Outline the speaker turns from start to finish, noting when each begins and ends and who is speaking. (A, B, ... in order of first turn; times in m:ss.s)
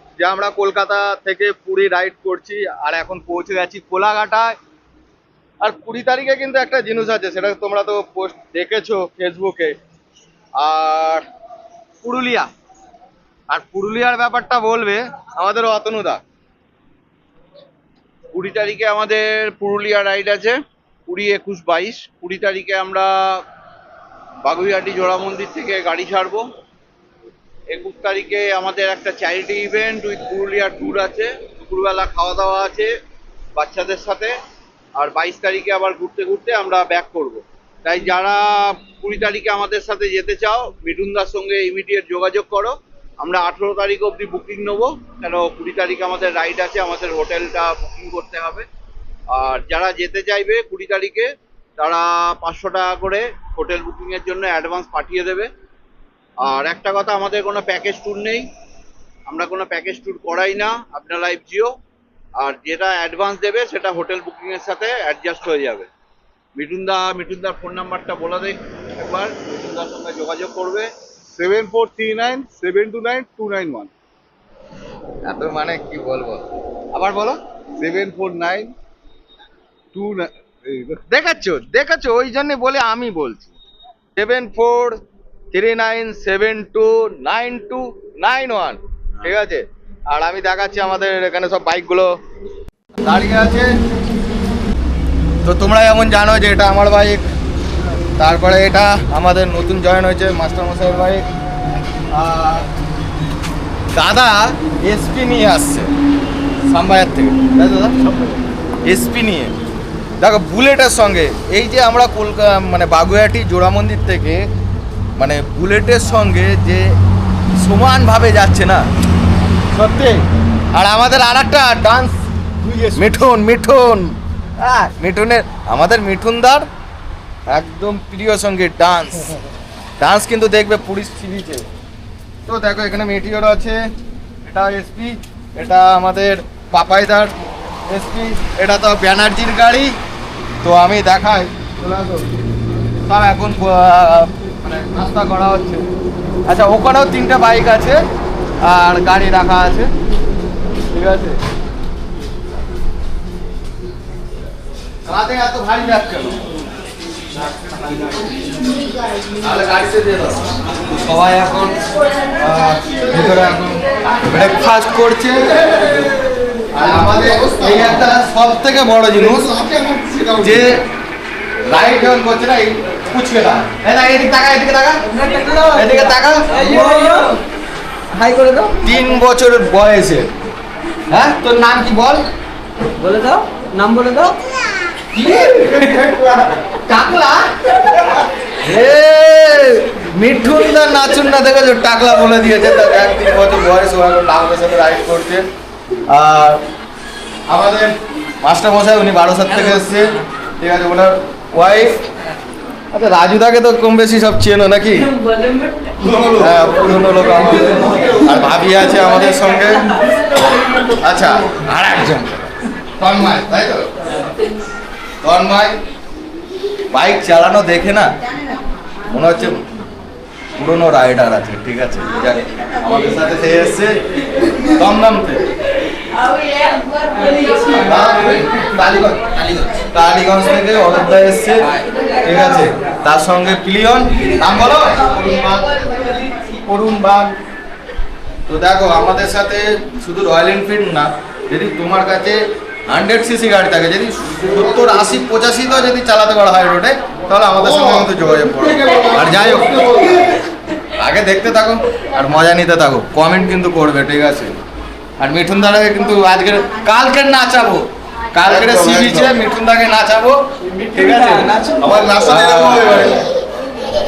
0:00.2-0:04.5 A
0:05.6-0:09.8 A
0:10.6-0:11.2 A
0:12.0-0:12.5 A
0:13.5-0:16.2 A
0:18.3-0:23.4 B
0:24.4-0:26.5 B
0:27.7-0:32.9 B
0:33.6-0:34.4 B
0:35.0-0:48.7 B
0:49.3-0:55.5 B
0:56.4-0:58.5 B
0:59.3-1:01.7 B
1:02.4-1:05.9 B
1:06.6-1:13.9 B
1:11.4-1:13.7 C
1:15.2-1:17.4 A
1:17.8-1:18.7 C
1:19.9-1:20.8 C
1:20.0-1:20.2 B
1:21.1-1:23.5 A
1:24.1-1:25.0 A
1:25.5-1:32.1 A
1:33.0-1:33.7 A
1:35.4-1:37.2 A
1:38.2-1:41.2 A
1:42.1-1:42.7 A
1:43.9-1:45.9 A
1:46.6-1:48.0 A
1:48.0-1:48.3 C
1:48.8-1:49.5 A
1:50.2-1:54.4 A
1:55.2-1:56.9 A
1:57.6-1:58.8 A
1:59.7-2:00.2 A
2:00.7-2:06.6 A
2:07.5-2:09.3 A
2:10.0-2:11.7 A
2:12.5-2:13.8 A
2:14.4-2:17.3 A
2:17.9-2:20.0 A
2:20.6-2:22.2 A
2:23.0-2:25.9 A
2:26.5-2:28.0 A
2:28.6-2:29.9 A
2:30.9-2:31.4 A
2:35.0-2:36.4 A
2:37.6-2:38.3 A
2:39.4-2:40.4 A
2:41.0-2:41.8 A
2:42.4-2:46.1 A
2:46.7-2:49.5 A
2:47.1-2:47.8 C
2:49.4-2:50.6 C
2:50.4-2:50.8 A
2:51.7-2:55.0 A
2:55.2-2:55.8 D
2:55.5-2:56.9 A
2:56.5-2:57.4 D
2:58.1-2:58.8 D
2:58.8-3:00.3 A
3:01.1-3:02.2 A
3:03.0-3:04.4 D
3:05.2-3:05.5 D
3:05.2-3:06.5 A
3:06.9-3:07.6 D
3:08.6-3:15.4 A
3:16.1-3:16.6 A
3:17.5-3:21.9 A
3:22.9-3:25.1 A
3:26.1-3:29.9 A
3:31.0-3:32.5 A
3:33.0-3:33.9 A
3:35.2-3:35.8 A
3:36.9-3:38.1 A
3:39.1-3:39.6 A
3:40.6-3:45.4 A
3:47.7-3:57.3 A
3:58.5-4:09.9 A
4:07.6-4:10.3 C
4:11.0-4:14.6 A
4:15.2-4:17.8 A
4:18.3-4:20.4 A
4:18.4-4:19.3 C
4:20.9-4:23.2 A
4:21.8-4:23.1 C